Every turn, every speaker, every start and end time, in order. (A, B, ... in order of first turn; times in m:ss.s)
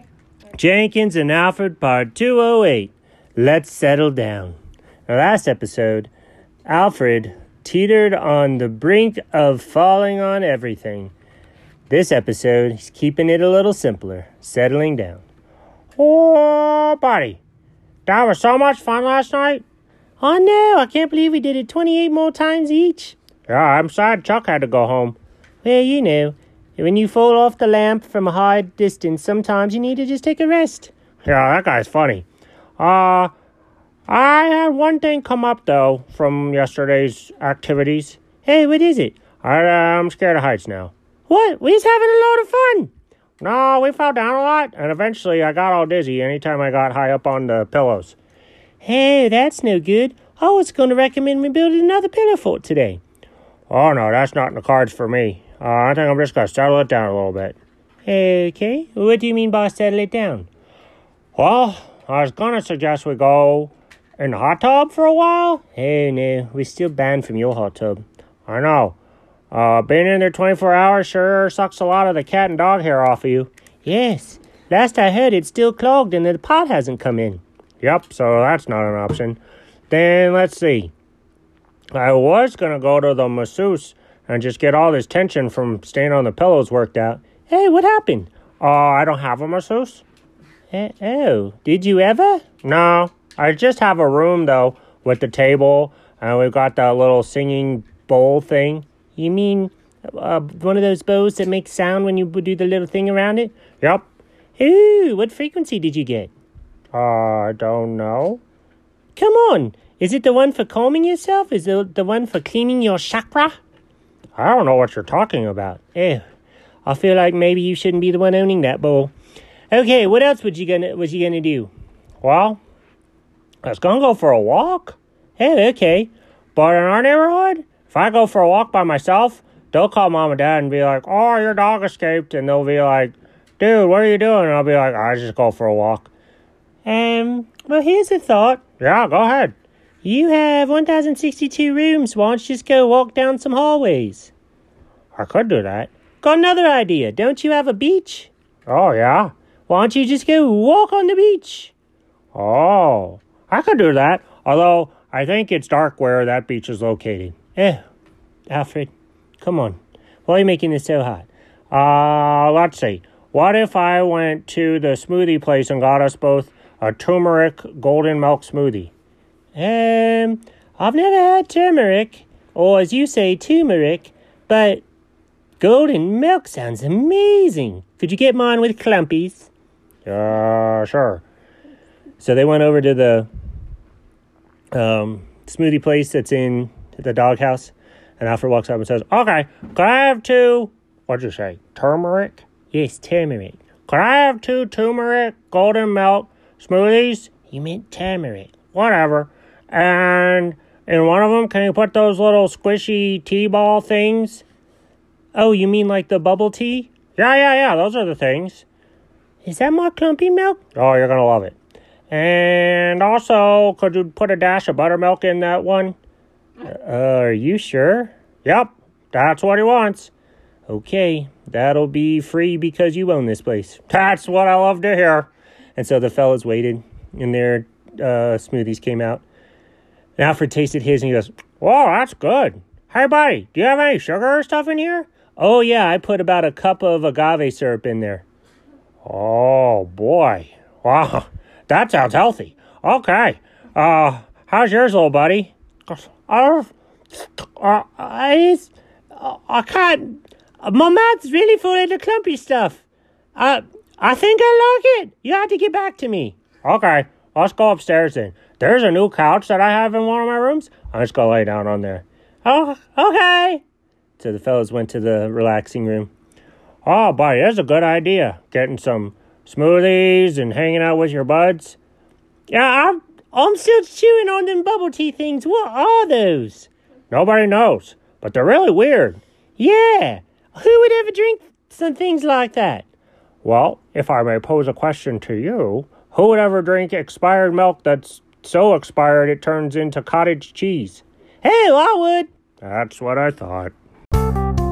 0:00.5-0:04.6 A
0:05.1-0:06.1 A
0:06.6-0:11.1 A
0:11.9-0:15.2 A
0:16.0-0:17.4 A
0:18.0-0:19.6 A
0:20.2-0:32.2 A
0:32.8-0:33.3 A
0:34.1-0:48.2 A
0:48.8-0:53.0 A
0:53.7-1:00.5 A
1:01.3-1:09.0 A
1:09.5-1:20.9 A
1:21.9-1:30.0 A
1:30.7-1:44.0 A
1:44.6-1:46.3 A
1:46.9-1:48.4 A
1:49.2-1:53.6 A
1:54.4-1:56.2 A
1:56.8-1:59.1 A
1:59.7-2:01.7 A
2:02.2-2:02.6 A
2:03.6-2:16.1 A
2:16.8-2:24.3 A
2:25.1-2:31.7 A
2:32.3-2:37.8 A
2:38.5-2:48.9 A
2:49.5-2:54.8 A
2:55.6-2:59.5 A
3:00.0-3:01.2 A
3:02.2-3:03.3 A
3:04.7-3:24.4 A
3:25.3-3:28.6 A
3:29.4-3:31.6 A
3:32.1-3:36.0 A
3:36.6-3:40.1 A
3:40.7-3:49.2 A
3:50.2-3:58.2 A
3:59.0-4:12.8 A
4:13.4-4:23.6 A
4:24.2-4:26.1 A
4:26.8-4:31.8 A
4:32.5-4:42.8 A
4:43.4-4:53.7 A